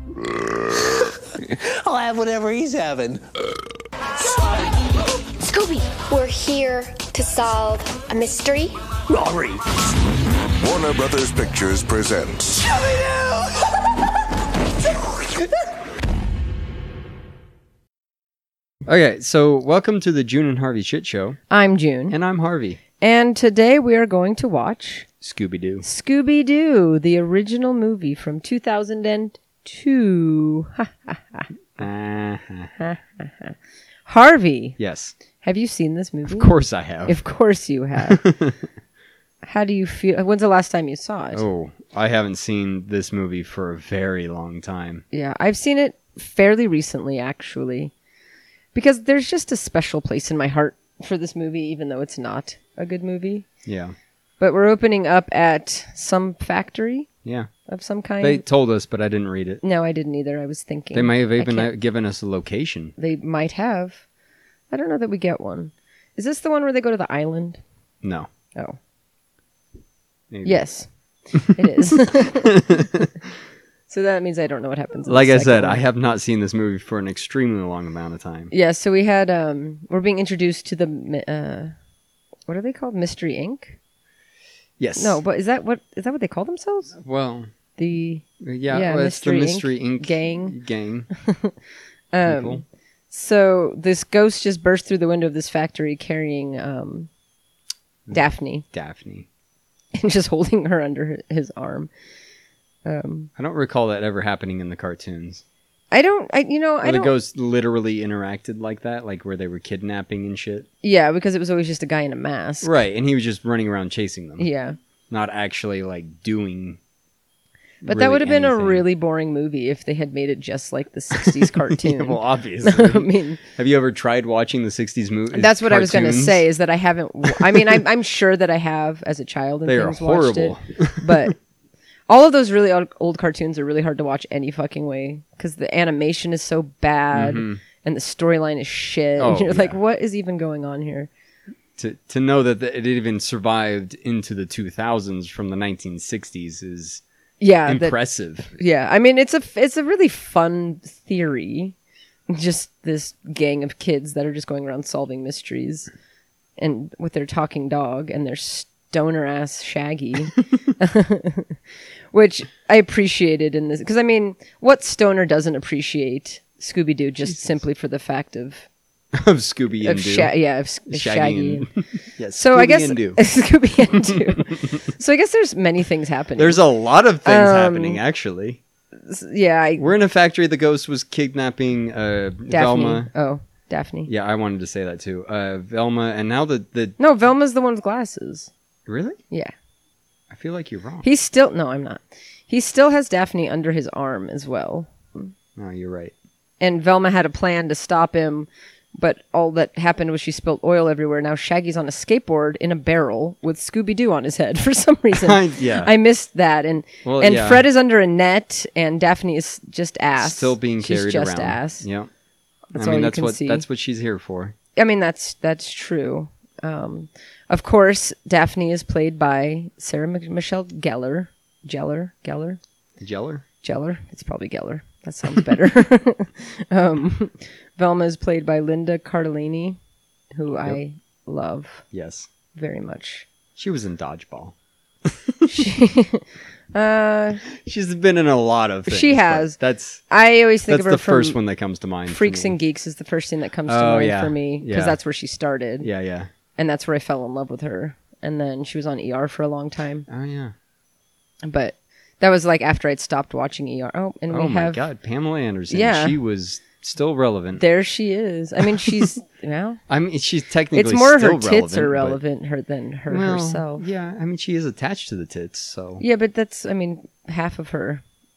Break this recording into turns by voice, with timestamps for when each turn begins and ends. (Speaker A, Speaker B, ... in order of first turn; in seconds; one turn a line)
Speaker A: 0.3-0.9
Speaker B: 1.3-3.2
Speaker B: 4.2-4.5
Speaker C: 5.4-8.8
Speaker B: 9.1-9.6
Speaker A: 10.6-12.7
Speaker B: 12.7-13.7
Speaker B: 15.0-15.4
Speaker D: 18.9-21.4
Speaker E: 21.5-22.2
Speaker D: 22.1-22.8
Speaker E: 23.0-25.1
Speaker D: 25.2-25.9
Speaker E: 25.8-31.5
Speaker D: 31.8-32.7
Speaker E: 32.8-33.6
Speaker E: 34.1-34.8
Speaker D: 34.8-35.1
Speaker E: 35.4-36.5
Speaker D: 36.3-37.1
Speaker E: 37.0-38.3
Speaker D: 38.1-38.6
Speaker E: 39.4-41.4
Speaker D: 41.3-45.0
Speaker E: 45.1-47.9
Speaker E: 48.7-53.5
Speaker D: 53.6-54.0
Speaker E: 54.4-57.1
Speaker D: 57.2-57.5
Speaker E: 57.7-58.4
Speaker D: 58.2-59.6
Speaker E: 59.6-61.7
Speaker D: 60.9-63.0
Speaker E: 63.0-64.0
Speaker E: 64.7-67.6
Speaker D: 68.0-68.3
Speaker D: 70.3-70.6
Speaker E: 70.5-72.8
Speaker D: 72.2-73.1
Speaker E: 73.9-75.8
Speaker D: 75.1-78.5
Speaker E: 78.5-81.7
Speaker E: 82.5-83.8
Speaker D: 84.8-85.2
Speaker E: 85.0-87.0
Speaker D: 87.0-87.5
Speaker E: 87.8-90.6
Speaker D: 88.4-91.1
Speaker E: 91.2-91.5
Speaker E: 92.1-97.1
Speaker D: 92.2-92.6
Speaker D: 98.1-99.3
Speaker E: 98.1-98.6
Speaker E: 100.0-101.9
Speaker E: 102.8-103.3
Speaker D: 103.4-105.4
Speaker E: 105.9-107.2
Speaker D: 106.8-110.7
Speaker E: 110.8-112.7
Speaker D: 112.6-114.5
Speaker E: 114.4-114.8
Speaker D: 115.1-116.8
Speaker D: 117.8-118.8
Speaker E: 117.8-123.4
Speaker D: 121.1-126.5
Speaker E: 125.3-131.4
Speaker D: 127.2-127.8
Speaker D: 129.7-131.3
Speaker E: 132.1-141.1
Speaker D: 137.1-137.6
Speaker D: 139.2-139.8
Speaker D: 141.8-147.0
Speaker E: 147.4-148.0
Speaker D: 147.7-148.5
Speaker E: 148.5-151.8
Speaker E: 152.3-155.9
Speaker E: 156.6-161.6
Speaker E: 162.1-168.7
Speaker D: 169.1-170.3
Speaker E: 169.8-171.7
Speaker D: 170.9-173.2
Speaker E: 172.3-176.6
Speaker D: 174.0-174.7
Speaker D: 176.4-178.6
Speaker E: 177.2-178.0
Speaker E: 179.1-179.8
Speaker D: 179.8-183.1
Speaker E: 182.5-184.1
Speaker D: 184.1-187.0
Speaker E: 187.0-188.5
Speaker D: 188.9-189.2
Speaker D: 190.3-191.1
Speaker E: 191.0-195.3
Speaker D: 195.6-196.1
Speaker E: 196.6-211.9
Speaker D: 205.1-205.9
Speaker D: 207.1-207.7
Speaker D: 210.2-212.1
Speaker E: 212.7-213.6
Speaker D: 212.7-214.6
Speaker E: 214.8-222.6
Speaker D: 223.0-223.4
Speaker E: 223.6-229.8
Speaker E: 230.3-231.8
Speaker D: 231.9-232.3
Speaker E: 232.5-233.3
Speaker D: 233.6-235.6
Speaker E: 235.5-237.4
Speaker D: 237.5-240.0
Speaker E: 238.9-241.4
Speaker D: 240.7-242.6
Speaker E: 242.1-245.9
Speaker D: 243.7-245.0
Speaker D: 245.8-246.3
Speaker E: 246.6-250.1
Speaker D: 250.1-250.5
Speaker E: 251.5-254.8
Speaker D: 254.3-257.6
Speaker E: 255.7-256.2
Speaker E: 257.6-259.8
Speaker D: 258.6-259.1
Speaker D: 259.9-262.2
Speaker E: 260.7-263.9
Speaker D: 263.1-266.0
Speaker E: 266.0-268.0